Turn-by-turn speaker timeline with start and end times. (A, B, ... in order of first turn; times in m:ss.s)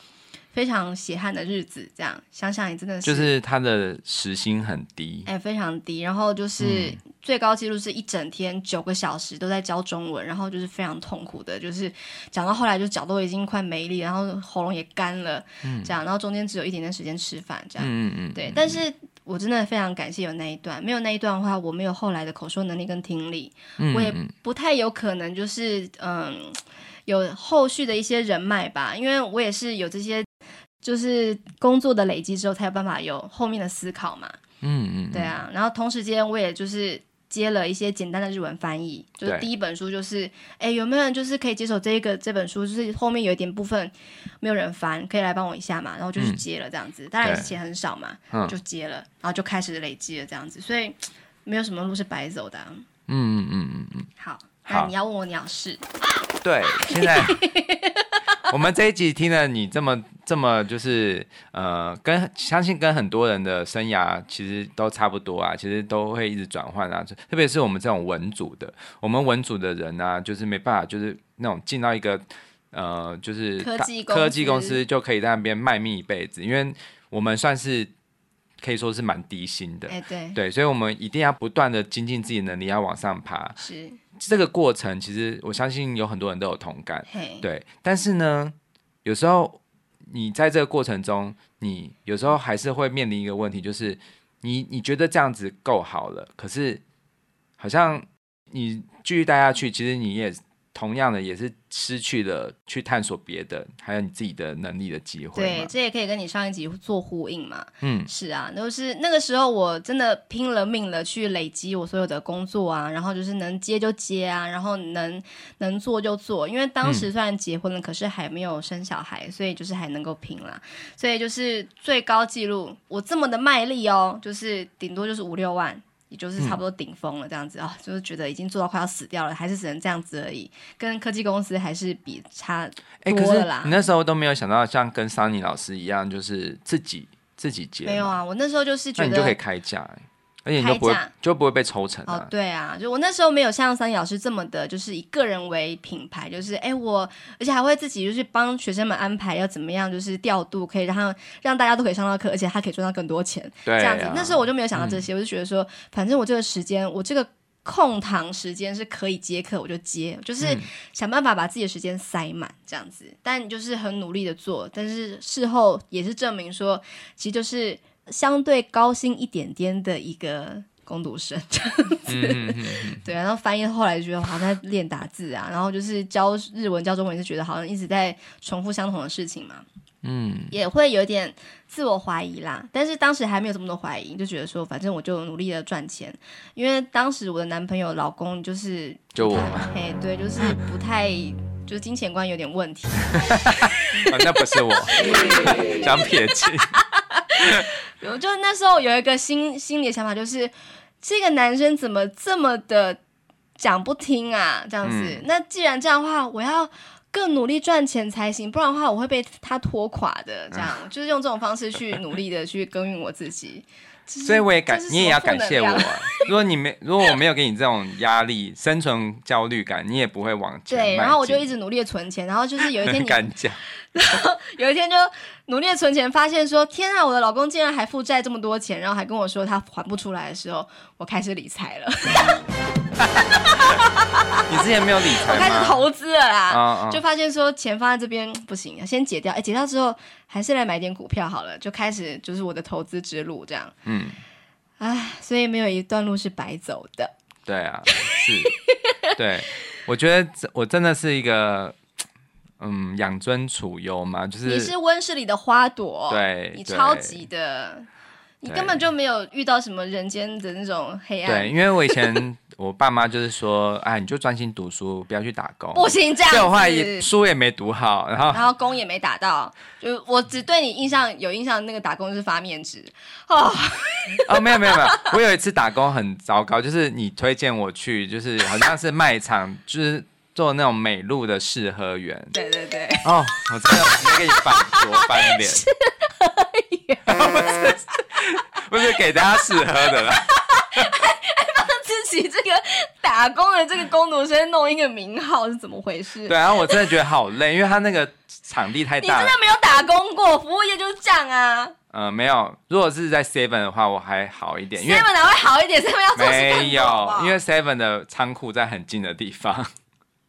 0:00.5-0:03.3 A
0:03.0-0:05.3 B
0:05.2-0:30.3 A
0:06.6-0:07.0 B
0:15.6-0:15.9 B
0:17.8-0:18.8 B
0:23.8-0:24.3 B
0:30.8-0:34.4 A
0:34.6-0:35.4 B
0:35.1-0:52.8 A
0:47.2-0:47.5 B
0:53.1-0:54.1 B
0:54.2-0:55.8 A
0:56.4-0:57.4 B
0:56.8-0:58.4 A
0:58.4-1:17.9 B
1:13.6-1:14.8 A
1:18.6-1:23.6 B
1:19.9-1:20.4 A
1:23.6-1:24.0 A
1:24.2-1:36.8 B
1:27.1-1:27.4 A
1:37.6-1:45.7 B
1:45.3-2:13.8 A
1:47.8-1:48.1 B
2:13.0-2:18.2 B
2:17.8-2:19.4 A
2:19.0-2:22.3 B
2:20.6-2:21.1 A
2:22.0-2:59.6 A
2:33.6-2:35.0 B
2:40.4-2:40.6 B
2:52.1-2:53.0 B
3:00.0-3:00.5 B
3:00.5-3:23.0 A
3:09.1-3:09.7 B
3:13.2-3:16.8 B
3:23.6-3:36.3 A
3:24.8-3:25.2 B
3:34.2-3:41.4 B
3:40.7-3:43.2 A
3:42.6-3:43.6 B
3:43.9-3:52.4 A
3:53.2-3:54.4 A
3:54.5-3:55.8 B
3:55.2-4:03.7 A
3:56.5-3:57.0 B
4:03.8-4:04.2 B
4:04.8-4:07.1 A
4:07.4-4:08.6 B
4:07.9-4:09.1 A
4:09.1-4:11.8 B
4:12.6-4:14.7 B
4:14.4-4:17.9 A
4:16.1-4:17.2 B
4:18.4-4:22.2 A
4:18.5-4:18.8 B
4:21.2-4:28.4 B
4:25.7-4:27.1 A
4:28.3-4:35.1 A
4:34.2-4:42.3 B
4:42.3-4:47.8 A
4:43.0-4:45.6 B
4:47.1-4:51.0 B
4:50.1-4:56.9 A
4:56.2-4:59.3 B
4:59.0-5:01.7 A
5:01.9-5:05.1 B
5:04.7-5:07.4 A
5:06.1-5:09.7 B